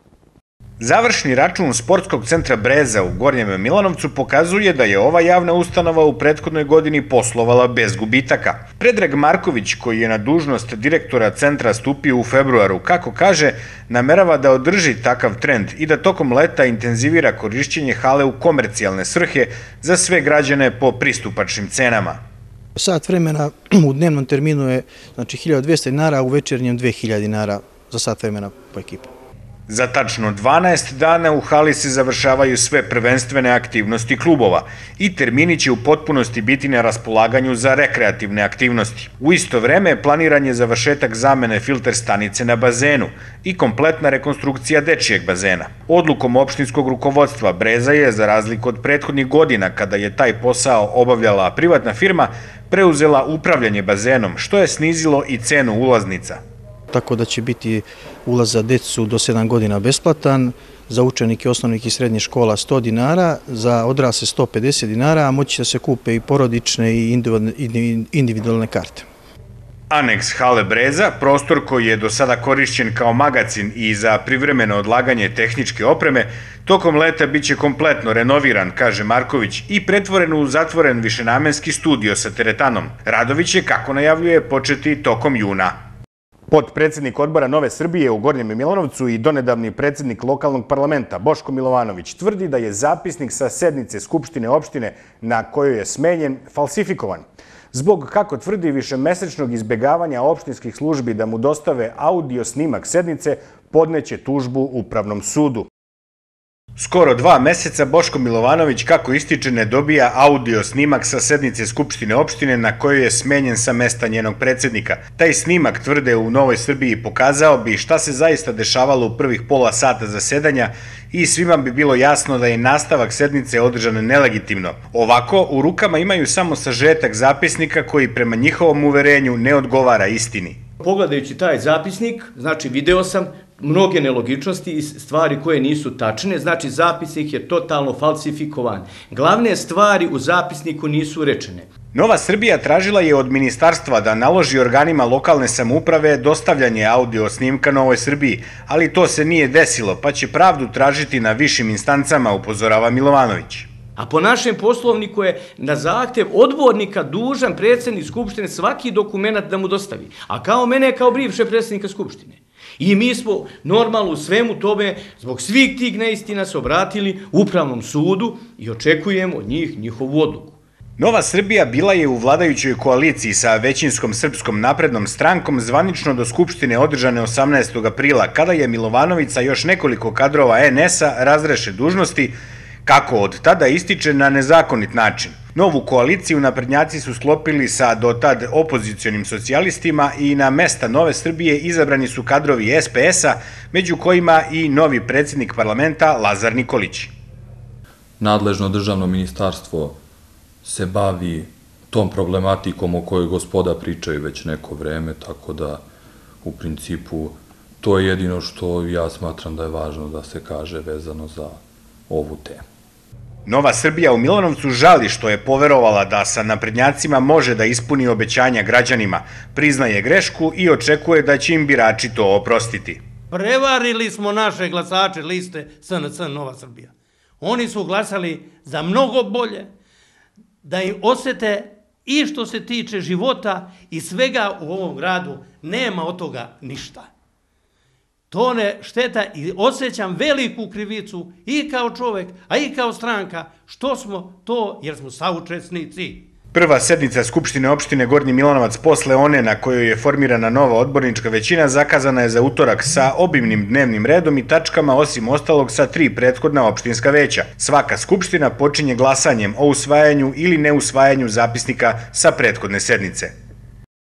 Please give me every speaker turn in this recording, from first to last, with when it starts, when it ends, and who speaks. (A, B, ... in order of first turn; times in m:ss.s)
0:00.8-0:22.2 A
0:22.8-0:29.0 B
0:29.7-0:56.4 A
0:56.9-1:09.0 B
1:09.9-1:25.8 A
1:26.5-1:45.7 A
1:46.8-2:10.6 A
2:10.8-2:21.7 C
2:21.9-2:33.7 A
2:34.0-2:50.6 C
2:51.0-3:17.1 A
3:18.2-3:20.0 D
3:20.6-3:25.8 D
3:26.4-3:32.6 D
3:33.4-3:43.0 A
3:43.3-3:49.7 E
3:50.6-3:57.1 E
3:58.3-4:06.3 E
4:06.5-4:23.3 A